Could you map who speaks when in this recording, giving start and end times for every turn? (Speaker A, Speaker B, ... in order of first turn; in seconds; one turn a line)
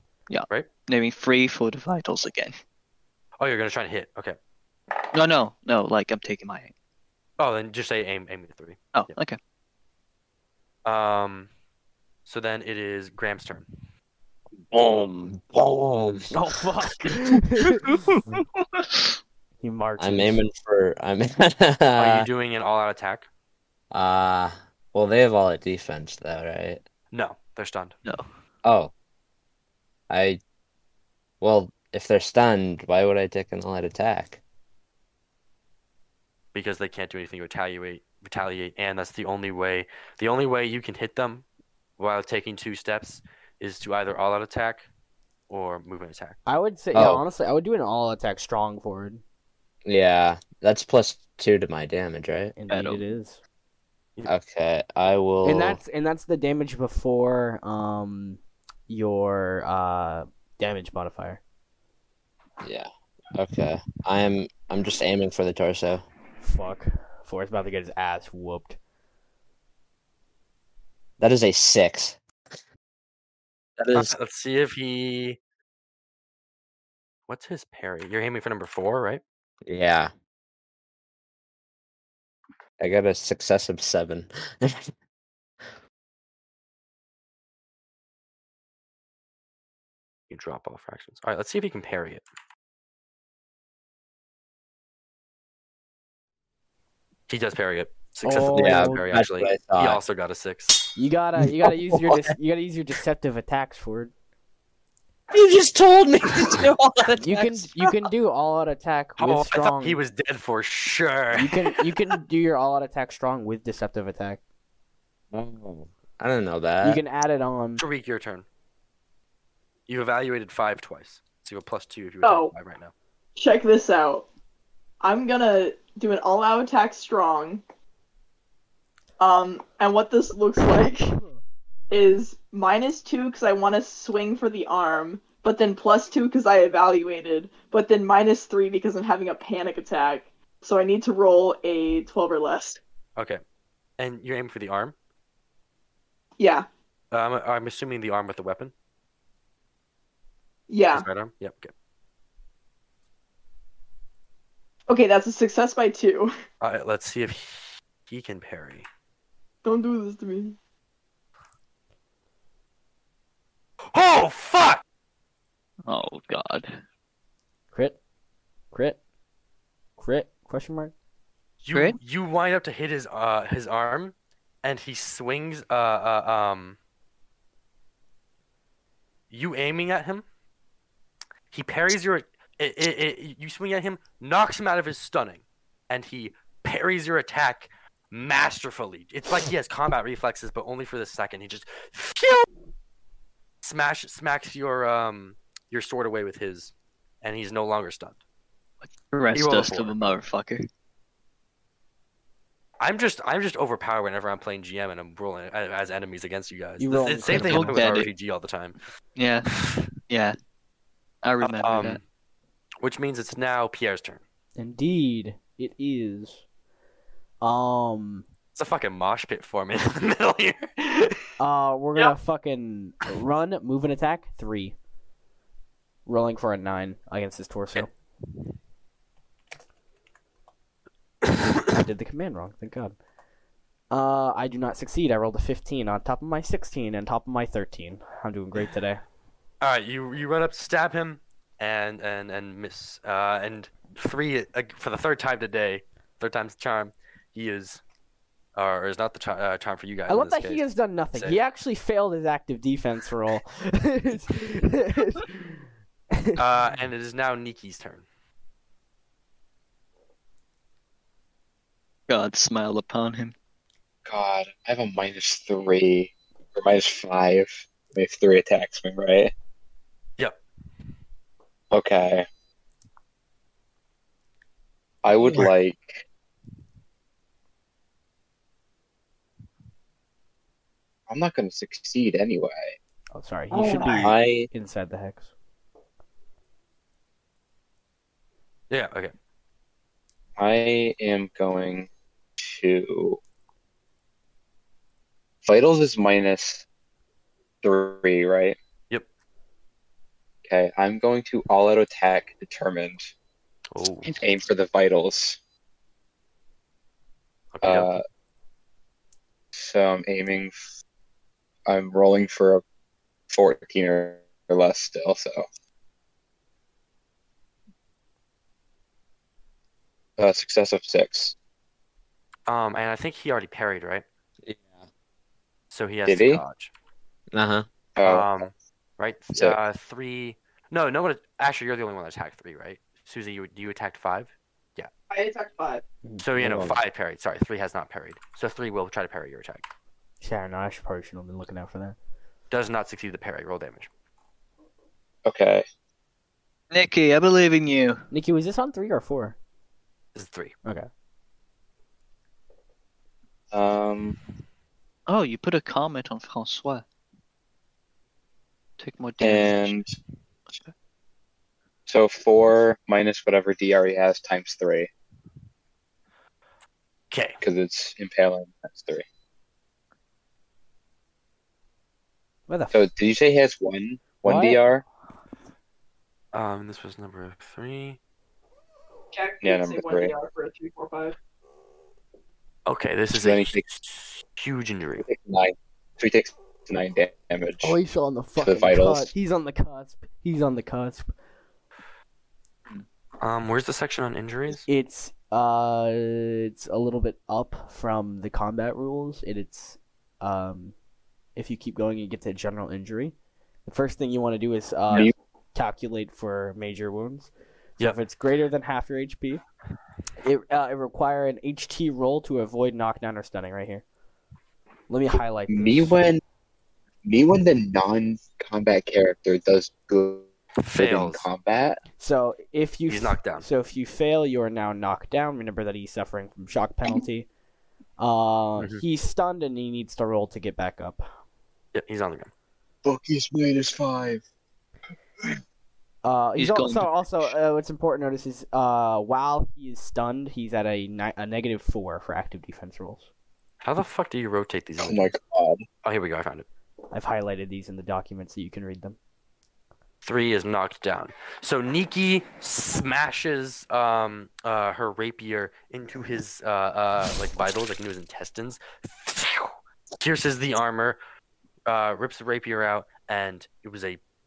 Speaker A: 0.3-2.5
Speaker B: 3.4-4.4
Speaker A: 5.1-6.7
Speaker B: 7.4-9.2
Speaker A: 8.9-9.4
Speaker B: 10.8-11.5
Speaker B: 12.2-13.7
Speaker C: 14.7-16.4
Speaker D: 16.3-18.0
Speaker A: 17.9-18.9
Speaker D: 19.6-20.4
Speaker C: 20.0-22.3
Speaker B: 21.9-23.3
Speaker C: 23.9-26.8
Speaker B: 27.1-27.9
Speaker C: 28.6-28.9
Speaker C: 30.1-30.4
Speaker C: 31.4-34.4
Speaker B: 36.5-41.4
Speaker B: 42.0-44.9
Speaker B: 45.5-46.4
Speaker D: 46.5-49.2
Speaker C: 46.9-47.2
Speaker C: 49.9-52.6
Speaker D: 52.5-53.4
Speaker A: 52.7-53.0
Speaker C: 54.2-55.8
Speaker D: 55.4-61.4
Speaker C: 62.6-66.0
Speaker D: 66.4-68.8
Speaker C: 71.2-72.2
Speaker C: 73.8-74.1
Speaker B: 73.9-75.4
Speaker B: 77.3-79.2
Speaker C: 79.7-80.1
Speaker C: 82.8-84.9
Speaker B: 90.3-92.2
Speaker B: 97.3-100.9
Speaker D: 98.2-99.0
Speaker C: 98.5-100.0
Speaker D: 101.0-104.1
Speaker C: 101.4-102.3
Speaker C: 105.3-107.9
Speaker D: 107.2-110.0
Speaker B: 109.2-111.6
Speaker D: 111.3-114.4
Speaker C: 115.3-117.0
Speaker D: 116.8-117.8
Speaker B: 117.8-118.5
Speaker B: 119.9-122.9
Speaker E: 122.2-122.5
Speaker E: 123.3-124.2
Speaker E: 125.0-127.6
Speaker E: 129.2-131.2
Speaker E: 131.9-142.8
Speaker B: 143.2-143.4
Speaker B: 144.0-144.9
Speaker E: 146.4-146.7
Speaker B: 147.1-148.7
Speaker E: 150.7-151.1
Speaker B: 150.9-151.7
Speaker E: 154.9-156.3
Speaker B: 156.6-158.8
Speaker E: 159.6-160.6
Speaker B: 163.9-164.8
Speaker A: 165.9-166.8
Speaker D: 167.7-168.0
Speaker D: 168.7-169.0
Speaker D: 170.0-170.9
Speaker B: 171.6-176.8
Speaker B: 179.3-180.2
Speaker B: 181.5-192.4
Speaker B: 193.6-198.2
Speaker A: 198.8-200.6
Speaker B: 199.3-200.1
Speaker B: 202.8-208.8
Speaker D: 206.8-207.8
Speaker A: 207.3-208.1
Speaker A: 209.2-209.5
Speaker B: 209.4-209.8
Speaker A: 210.1-210.3
Speaker A: 211.2-212.0
Speaker B: 211.4-212.0
Speaker B: 212.8-214.2
Speaker D: 214.6-216.4
Speaker D: 217.4-218.2
Speaker B: 218.5-221.2
Speaker D: 221.4-224.8
Speaker D: 226.1-227.9
Speaker D: 231.4-232.9
Speaker D: 233.9-239.0
Speaker B: 239.6-247.8
Speaker B: 248.6-251.4
Speaker D: 250.1-255.6
Speaker D: 256.1-256.4
Speaker B: 256.4-258.1
Speaker A: 262.1-263.3
Speaker F: 264.1-269.3
Speaker F: 271.7-272.2
Speaker F: 275.0-276.0
Speaker F: 281.1-282.7
Speaker D: 283.1-285.3
Speaker F: 283.8-284.5
Speaker B: 288.7-289.1
Speaker F: 290.4-291.9
Speaker F: 292.4-293.2
Speaker F: 295.4-296.6
Speaker F: 297.6-298.6
Speaker F: 300.4-303.1
Speaker B: 303.7-304.2
Speaker F: 304.0-305.4
Speaker B: 307.5-307.9
Speaker F: 307.6-308.0
Speaker F: 309.5-310.6
Speaker F: 311.7-312.6
Speaker F: 313.3-315.4
Speaker F: 320.2-321.3
Speaker B: 322.5-324.0
Speaker C: 324.4-324.8
Speaker B: 325.7-326.7
Speaker F: 326.1-326.4
Speaker C: 327.3-327.6
Speaker F: 327.9-328.4
Speaker B: 328.0-334.9
Speaker E: 335.1-335.8
Speaker D: 336.0-336.7
Speaker B: 336.2-339.6
Speaker D: 340.2-342.0
Speaker B: 342.5-343.9
Speaker F: 345.2-345.6
Speaker A: 346.7-348.0
Speaker D: 348.1-349.4
Speaker B: 350.1-350.5
Speaker D: 350.6-350.9
Speaker F: 353.5-354.2
Speaker A: 355.1-356.8
Speaker A: 358.8-359.8
Speaker F: 359.2-359.9
Speaker F: 361.9-364.9
Speaker B: 367.1-367.4
Speaker F: 367.4-369.0
Speaker D: 372.5-372.9
Speaker F: 372.7-374.8
Speaker D: 374.2-374.6
Speaker B: 376.3-378.0
Speaker E: 379.1-381.1
Speaker F: 379.4-380.1
Speaker B: 382.6-385.1
Speaker F: 383.1-383.7
Speaker F: 385.0-387.7
Speaker D: 387.6-391.1
Speaker F: 388.4-389.1
Speaker B: 393.2-394.6
Speaker D: 394.7-400.7
Speaker D: 401.4-403.1
Speaker D: 403.6-409.4
Speaker D: 410.2-413.8
Speaker D: 414.9-416.0
Speaker F: 415.5-416.2
Speaker F: 417.0-421.8
Speaker B: 420.6-421.3
Speaker D: 422.0-427.3
Speaker B: 422.9-423.5
Speaker D: 428.0-431.1
Speaker B: 428.6-428.8
Speaker B: 431.7-432.3
Speaker F: 432.8-434.2
Speaker D: 436.0-443.1
Speaker A: 436.4-437.3
Speaker B: 443.6-445.1
Speaker F: 444.8-445.6
Speaker B: 445.8-446.4
Speaker D: 446.9-449.0
Speaker B: 450.0-461.0
Speaker B: 461.6-464.0